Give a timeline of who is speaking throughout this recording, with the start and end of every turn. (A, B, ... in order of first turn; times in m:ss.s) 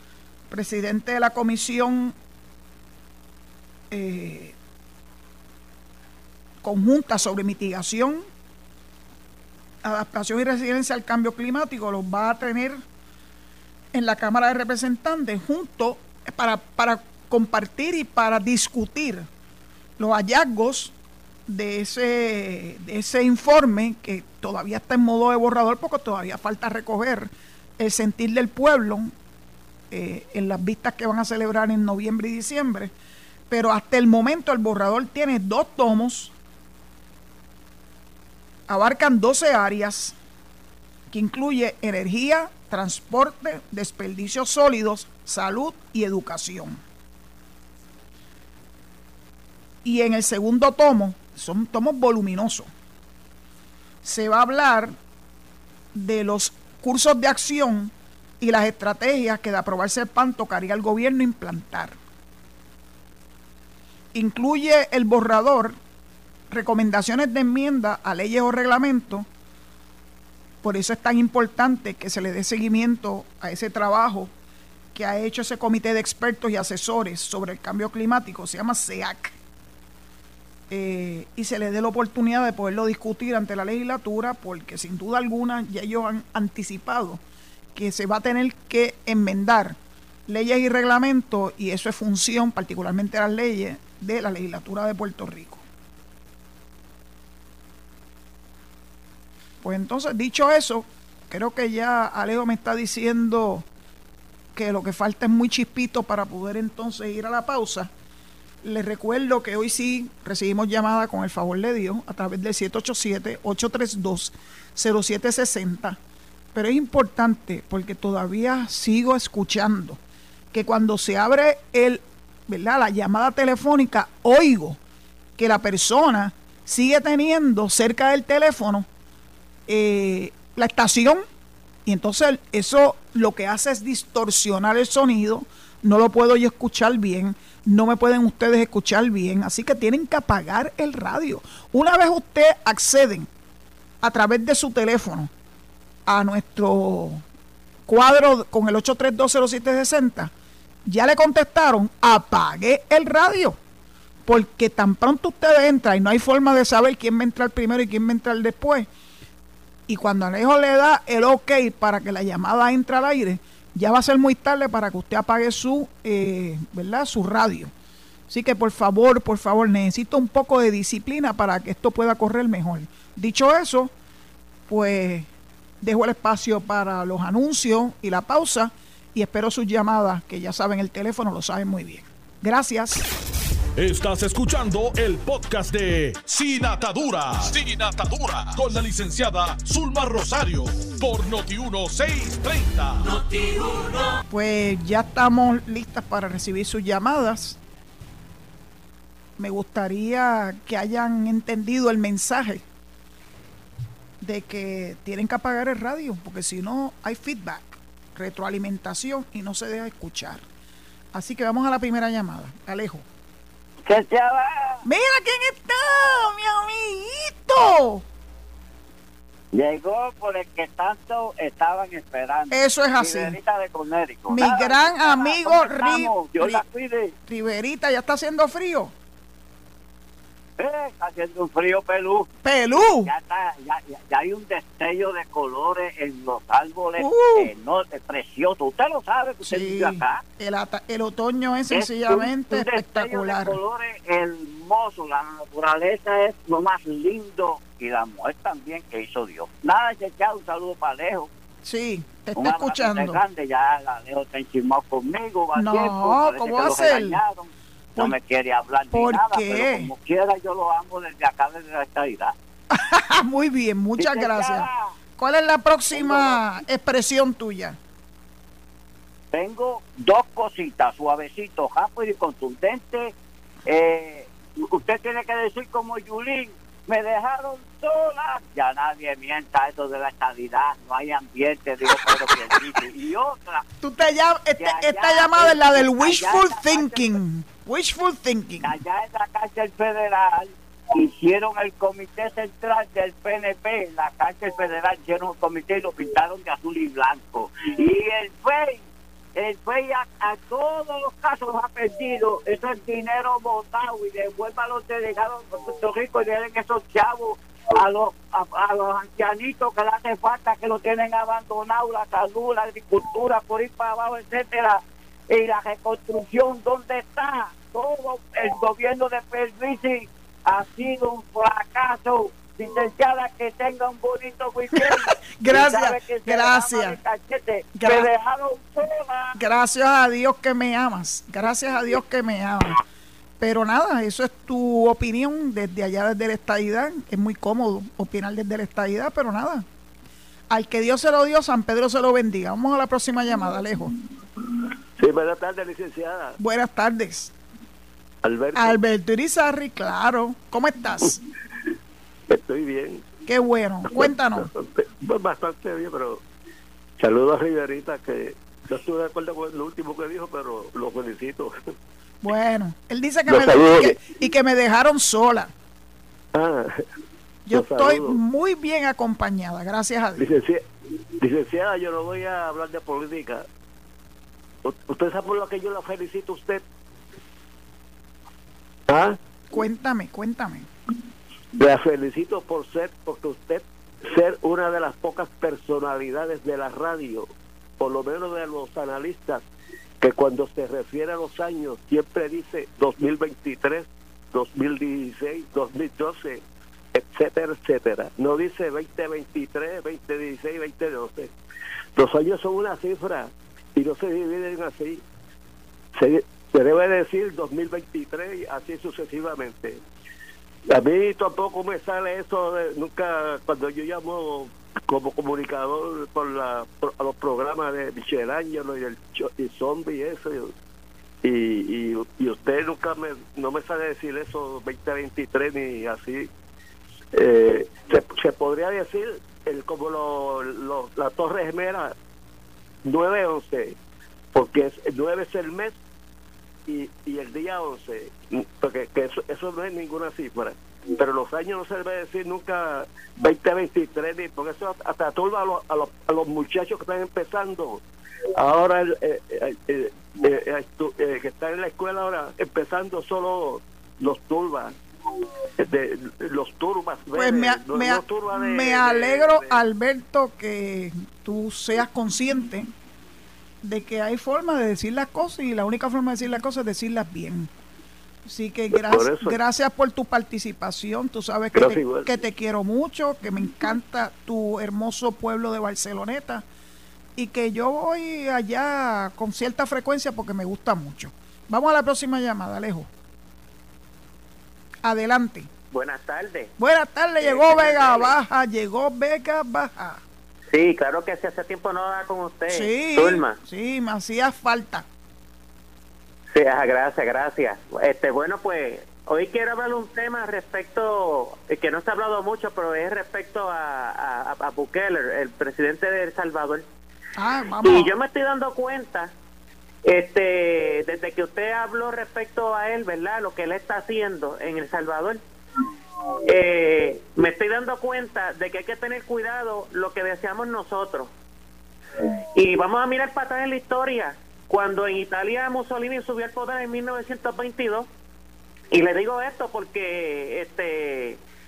0:00.5-0:02.2 A
0:03.9-0:04.6 A
0:06.6-0:08.2 A
0:09.8-0:12.8 A
0:13.9-0:19.3 A
0:20.0-0:20.9 A
0:21.5-0:29.1 A
0:29.9-0:32.9 A
0:33.5-0:36.3 A
0:38.7-0:40.2 A
0:41.1-0:46.8 A
0:49.8-0:52.7 A
0:54.0-0:54.9 A
0:55.9-1:02.0 A
1:04.1-1:05.8 A
1:06.5-1:09.3 A
1:10.6-1:14.3 A
1:14.9-1:19.4 A
1:20.7-1:27.2 A
1:27.8-1:29.8 A
1:30.3-1:35.6 A
1:39.6-1:43.7 A
1:44.6-1:47.9 A
1:48.6-1:56.0 A
1:56.5-2:00.0 A
2:00.5-2:04.8 A
2:05.4-2:08.9 A
2:09.7-2:11.2 A
2:11.9-2:23.3 A
2:24.0-2:25.3 A
2:26.1-2:27.2 A
2:27.9-2:30.3 A
2:30.8-2:33.6 A
2:34.3-2:38.9 A
2:39.9-2:47.7 A
2:48.3-2:53.9 A
2:54.7-2:55.3 A
2:55.8-3:03.0 A
3:03.8-3:13.7 B
3:14.3-3:17.6 A
3:19.4-3:22.6 A
3:24.2-3:30.4 A
3:31.1-3:33.0 A
3:33.8-3:34.8 C
3:34.8-3:38.0 A
3:39.5-3:47.1 C
3:42.5-3:43.4 A
3:44.3-3:46.6 A
3:47.3-3:48.9 A
3:50.6-4:00.2 C
3:52.4-3:53.1 A
3:57.0-3:57.5 A
3:59.4-4:03.6 A
4:01.7-4:11.3 C
4:11.6-4:13.2 A
4:12.4-4:22.3 C
4:15.5-4:17.2 A
4:18.9-4:19.9 A
4:22.7-4:24.7 A
4:24.0-4:24.9 C
4:25.2-4:27.8 A
4:25.9-4:26.5 C
4:29.3-4:33.1 C
4:33.7-4:43.7 C
4:43.8-4:48.8 A
4:44.6-4:47.2 C
4:48.6-4:58.8 C
4:59.4-5:29.4 C
5:24.8-5:27.0 A
5:27.8-5:28.1 A
5:29.4-5:32.8 A
5:33.4-5:39.7 A
5:40.5-5:43.9 A
5:45.0-5:46.4 D
5:46.4-5:47.3 A
5:48.2-5:48.8 D
5:48.6-5:51.2 A
5:52.3-5:53.0 D
5:53.3-5:54.5 A
5:53.9-5:56.2 D
5:57.0-6:01.6 D
6:02.2-6:05.5 A
6:03.3-6:04.0 D
6:06.3-6:06.8 D
6:07.5-6:10.3 A
6:07.5-6:08.2 D
6:10.2-6:10.6 D
6:11.2-6:13.5 D
6:14.6-6:16.6 D
6:18.9-6:19.2 D
6:19.5-6:20.7 A
6:21.5-6:29.4 D
6:30.0-6:41.3 D
6:42.0-6:45.0 D
6:46.0-6:49.8 D
6:50.7-7:00.5 D
7:01.2-7:06.3 D
7:07.1-7:12.0 D
7:12.8-7:13.8 D
7:14.3-7:15.8 D
7:16.7-7:27.8 D
7:28.4-7:34.8 D
7:35.6-7:39.6 D
7:37.1-7:42.7 A
7:43.6-7:47.5 A
7:48.3-7:56.4 A
7:48.7-7:49.4 D
7:51.5-7:52.1 D
7:57.2-8:02.9 A
8:04.8-8:05.5 A
8:05.7-8:06.5 E
8:06.6-8:10.0 A
8:07.2-8:08.2 E
8:10.5-8:13.4 E
8:12.5-8:14.9 A
8:16.3-8:26.6 E
8:27.2-8:27.9 A
8:27.6-8:29.1 E
8:29.8-8:35.2 E
8:36.2-8:41.1 E
8:42.3-8:47.9 E
8:48.7-8:51.2 E